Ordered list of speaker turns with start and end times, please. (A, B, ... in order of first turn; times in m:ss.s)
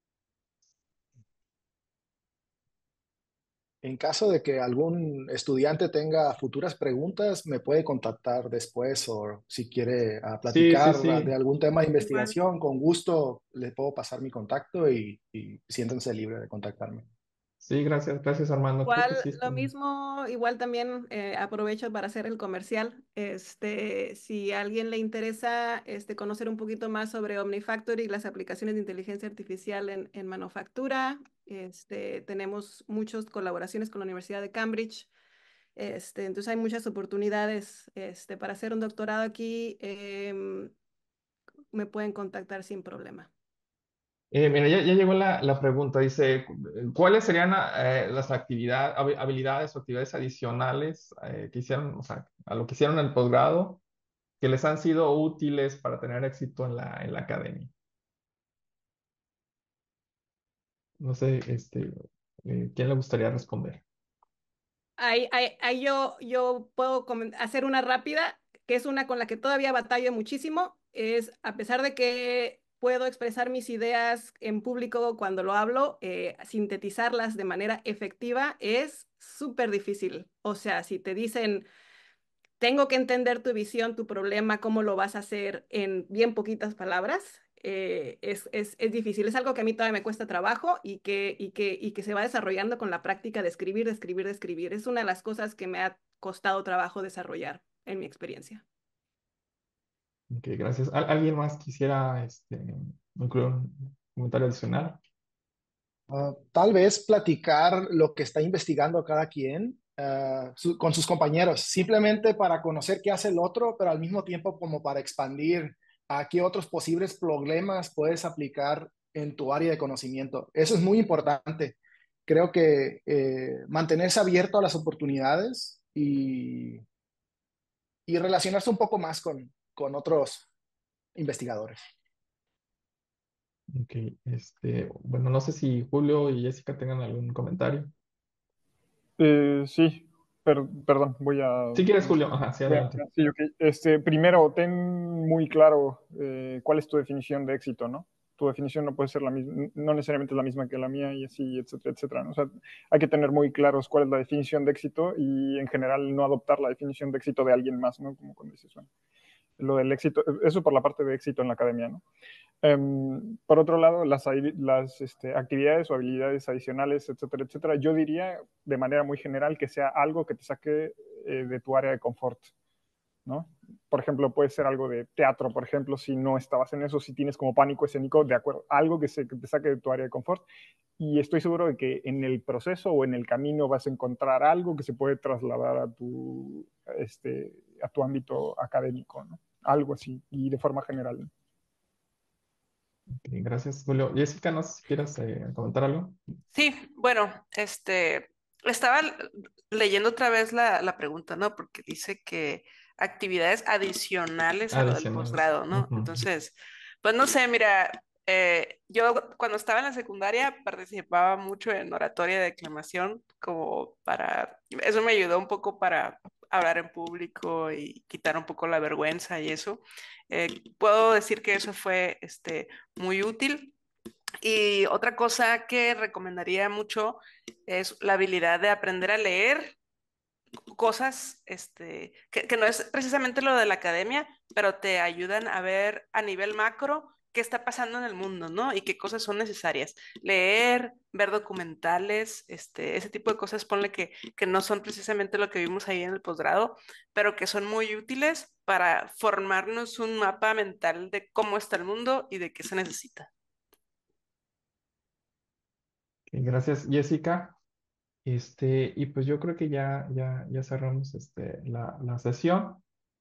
0:03.8-0:17.1 A
0:10.5-0:11.3 B
0:12.0-0:12.4 C
0:17.6-0:19.7 B
0:18.9-0:35.1 C
0:35.8-0:40.7 C
0:41.7-0:43.3 C
0:44.3-0:53.8 B
0:54.4-0:57.7 B
1:01.0-1:01.9 B
1:02.4-1:03.8 B
1:05.0-1:21.7 C
1:22.6-1:38.6 C
1:40.3-1:45.0 B
1:46.1-2:06.8 A
2:08.1-2:10.5 A
2:11.2-2:11.8 A
2:13.7-2:17.9 B
2:19.2-2:38.9 D
2:21.8-2:23.0 B
2:39.6-2:42.0 D
2:42.6-2:52.5 D
2:53.3-3:00.5 D
3:01.0-3:11.3 D
3:13.2-3:16.2 B
3:16.5-3:43.7 E
3:24.7-3:26.2 B
3:44.4-3:49.8 E
3:50.7-4:13.3 E
4:16.3-4:17.6 B
4:18.2-4:22.8 B